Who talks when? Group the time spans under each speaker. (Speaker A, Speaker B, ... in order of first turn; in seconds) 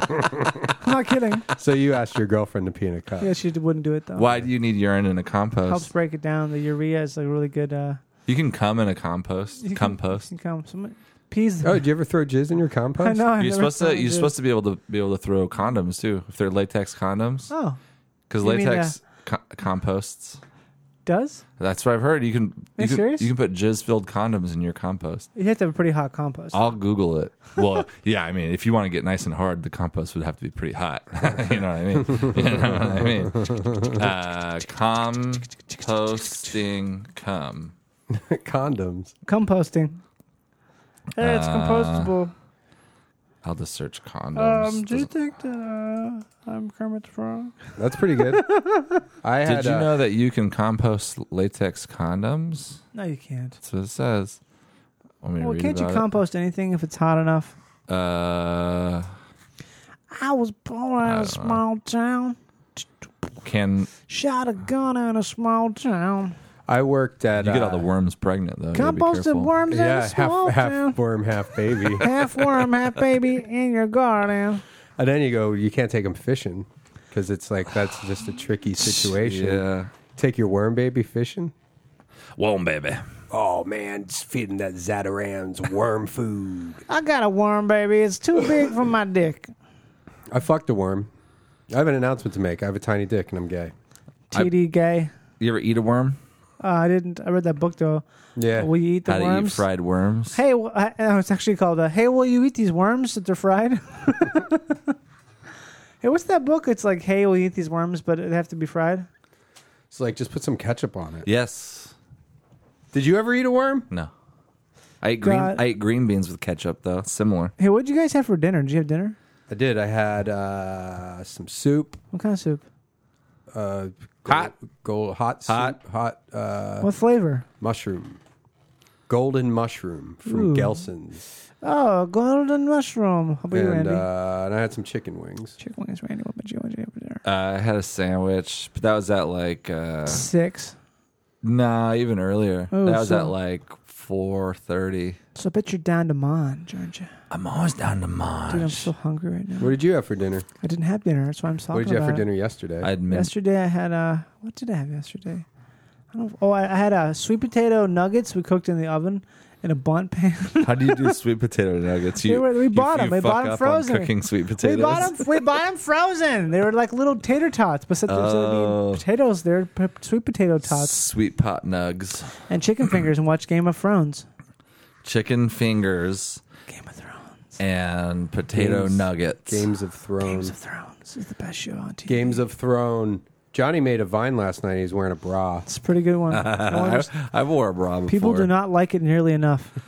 Speaker A: 0.8-1.4, 3.2-4.4, 5.7-8.0, 9.6-11.8, 13.0-14.3, 17.5-17.8, 18.4-18.9, 21.1-21.4, 22.8-23.3, 25.3-26.6, 39.2-40.0, 41.2-42.3, 44.3-47.6, 48.2-49.0, 52.9-53.6, 55.4-57.5, 60.1-63.1, 64.1-66.3, 68.7-71.0, 72.0-74.6, 86.9-89.5, 94.3-95.1, 96.6-99.6, 100.3-104.9, 106.0-109.1, 115.2-115.6, 117.6-119.2, 122.1-122.6, 126.8-127.5, 130.2-130.8, 131.6-134.1, 135.6-137.2, 140.1-140.7, 142.7-143.3, 145.3-147.1, 148.5-149.8, 150.6-152.2, 153.1-155.4, 156.1-161.1, 162.2-171.0, 172.5-174.2, 176.7-177.6, 180.2-182.4, 185.7-187.1, 188.1-189.7
Speaker B: 1.6-3.3, 11.6-13.2, 32.2-32.7, 33.4-33.9, 38.1-39.1, 47.8-48.4, 49.2-49.9, 66.7-67.9, 69.7-72.1, 75.0-81.5, 83.3-86.8, 90.3-91.1, 91.7-93.7, 98.3-98.7, 109.9-111.3, 112.9-113.9, 119.5-122.0, 123.5-126.9, 127.6-128.2, 129.1-131.2, 133.5-135.6, 149.6-150.4, 151.7-152.9, 178.5-180.5, 182.1-185.7
Speaker C: 4.2-5.9, 8.3-10.3, 13.4-17.5, 18.3-20.4, 21.6-25.3, 26.5-37.7, 41.2-42.1, 43.4-45.1, 49.4-52.8, 53.6-54.4, 55.2-56.1, 57.9-59.1, 61.0-61.6, 63.4-63.9, 67.4-69.5, 78.8-79.9, 82.4-83.0, 95.4-96.2, 99.0-100.4, 111.2-111.9, 115.0-117.5, 125.5-125.8, 137.2-140.3, 141.4-145.2, 147.3-148.9, 152.8-153.3, 160.6-165.3, 168.1-169.0, 170.7-172.4, 175.0-176.4, 177.6-179.6, 186.3-188.5